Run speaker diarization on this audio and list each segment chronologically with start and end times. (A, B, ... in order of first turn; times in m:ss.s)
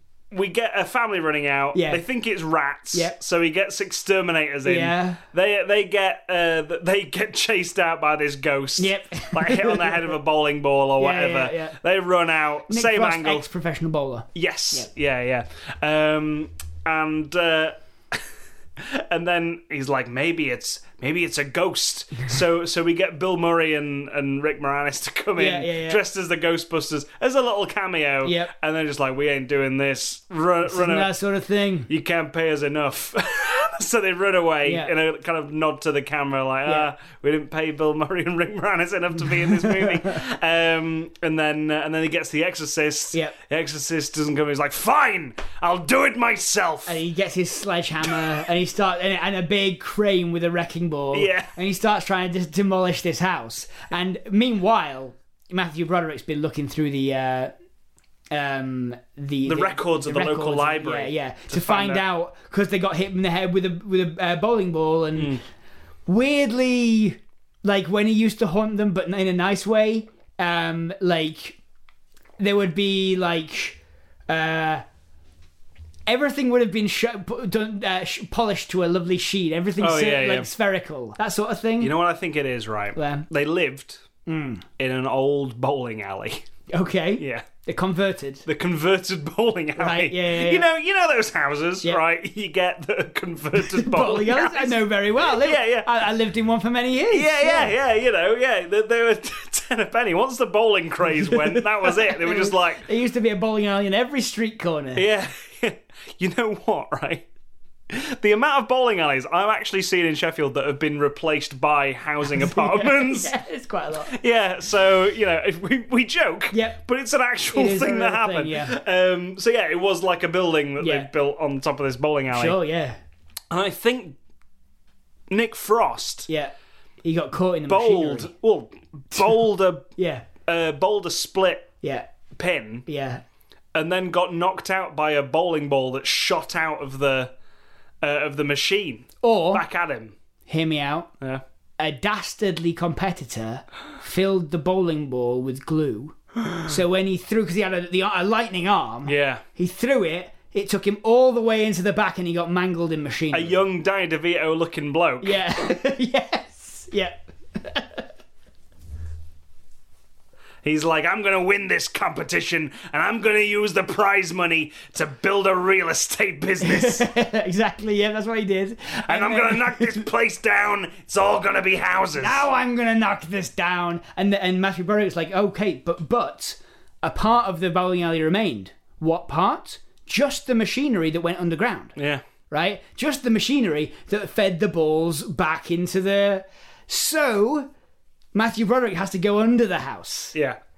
0:00.3-0:13.5 A
0:01.7-0:02.0 B
0:04.6-0:05.2 B
0:08.8-0:10.1 B
0:11.0-0:11.8 B
0:12.7-0:14.9 B
0:14.3-0:18.2 A
0:18.8-0:31.1 A
0:25.4-0:26.0 B
0:28.2-0:28.5 B
0:30.6-0:31.9 B
0:31.9-0:47.0 A
0:34.6-0:34.9 B
0:36.6-0:36.9 B
0:39.4-0:40.2 B
0:46.8-0:57.5 B
0:51.1-0:51.5 A
0:58.3-1:05.4 B
0:59.4-1:02.0 A
1:05.2-1:05.4 A
1:06.1-1:11.6 B
1:12.4-1:13.8 B
1:14.3-1:14.8 B
1:16.1-1:21.9 B
1:19.8-1:20.5 A
1:21.8-1:24.0 A
1:23.0-1:23.3 B
1:24.2-1:24.6 B
1:24.8-1:26.4 A
1:26.7-1:28.4 B
1:27.2-1:27.4 A
1:28.4-1:35.9 A
1:29.8-1:30.7 B
1:33.6-1:37.7 B
1:37.1-1:42.8 A
1:41.0-1:45.0 B
1:45.0-1:47.2 A
1:47.9-1:53.3 A
1:52.3-1:54.2 B
1:54.1-2:02.6 A
1:56.5-1:56.8 B
1:57.5-1:58.7 B
2:00.8-2:01.1 B
2:02.3-2:03.0 B
2:03.5-2:04.2 A
2:05.3-2:06.3 A
2:06.3-2:08.3 B
2:07.7-2:09.9 A
2:10.0-2:10.2 B
2:10.4-2:11.7 A
2:11.8-2:12.1 B
2:12.3-2:12.8 A
2:12.9-2:13.2 B
2:13.7-2:17.3 A
2:18.0-2:20.2 A
2:19.2-2:19.6 B
2:20.5-2:21.1 B
2:21.8-2:33.6 B
2:29.0-2:29.4 A
2:33.3-2:35.4 A
2:35.2-2:38.0 B
2:40.6-2:47.1 A
2:46.6-2:50.0 B
2:49.1-2:52.4 A
2:52.1-3:01.9 B
3:02.0-3:02.2 A
3:02.5-3:07.7 B
3:08.3-3:10.4 B
3:10.3-3:10.6 A